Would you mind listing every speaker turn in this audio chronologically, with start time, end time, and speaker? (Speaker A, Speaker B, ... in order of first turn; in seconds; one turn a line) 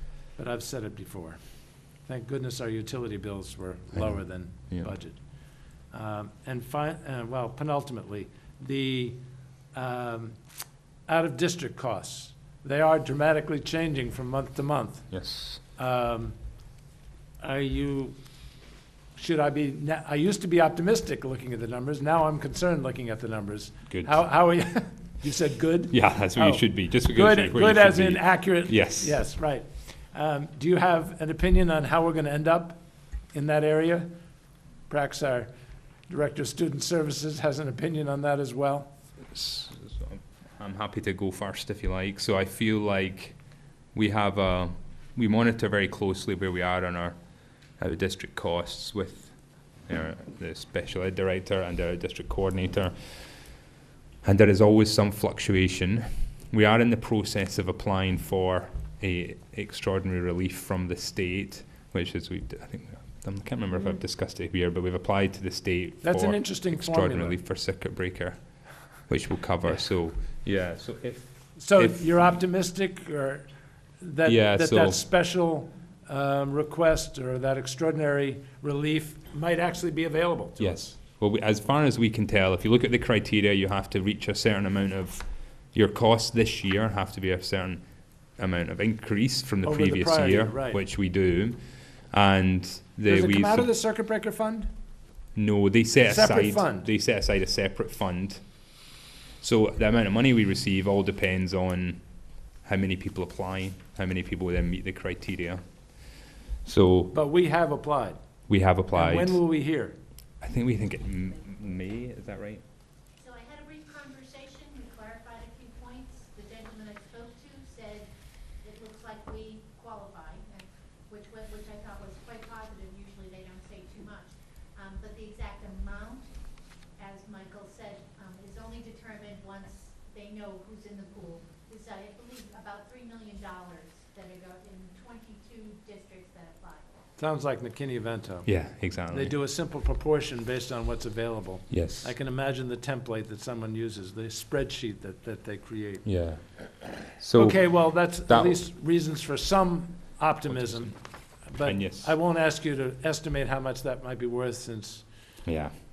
Speaker A: 0.4-1.4
Speaker A: 2.0-5.2
Speaker A: 5.9-9.2
Speaker A: 9.7-10.4
Speaker A: 11.1-15.1
Speaker B: 15.1-15.6
Speaker A: 15.8-16.4
Speaker A: 17.4-18.2
Speaker A: 19.2-32.8
Speaker B: 23.9-24.2
Speaker B: 25.9-29.2
Speaker A: 33.3-34.1
Speaker A: 34.9-35.5
Speaker A: 36.1-38.9
Speaker B: 39.3-43.4
Speaker B: 43.9-47.2
Speaker B: 47.8-53.2
Speaker B: 54.2-72.2
Speaker A: 66.0-67.4
Speaker A: 71.6-73.5
Speaker A: 74.0-80.8
Speaker B: 74.2-75.0
Speaker B: 80.6-87.8
Speaker B: 88.4-93.7
Speaker A: 89.6-90.8
Speaker A: 93.1-94.7
Speaker B: 95.3-98.4
Speaker A: 96.0-96.9
Speaker B: 99.4-102.0
Speaker B: 102.6-105.6
Speaker B: 106.7-107.1
Speaker A: 107.1-108.2
Speaker B: 108.5-109.4
Speaker A: 108.9-110.0
Speaker B: 110.4-112.6
Speaker C: 113.2-118.1
Speaker C: 118.6-126.3
Speaker C: 127.0-136.8
Speaker A: 137.2-138.5
Speaker B: 138.5-139.3
Speaker A: 139.1-146.1
Speaker B: 141.7-142.1
Speaker B: 146.1-146.4
Speaker B: 147.0-148.6
Speaker A: 147.3-155.1
Speaker B: 150.7-150.9
Speaker B: 151.6-152.1
Speaker B: 155.5-155.7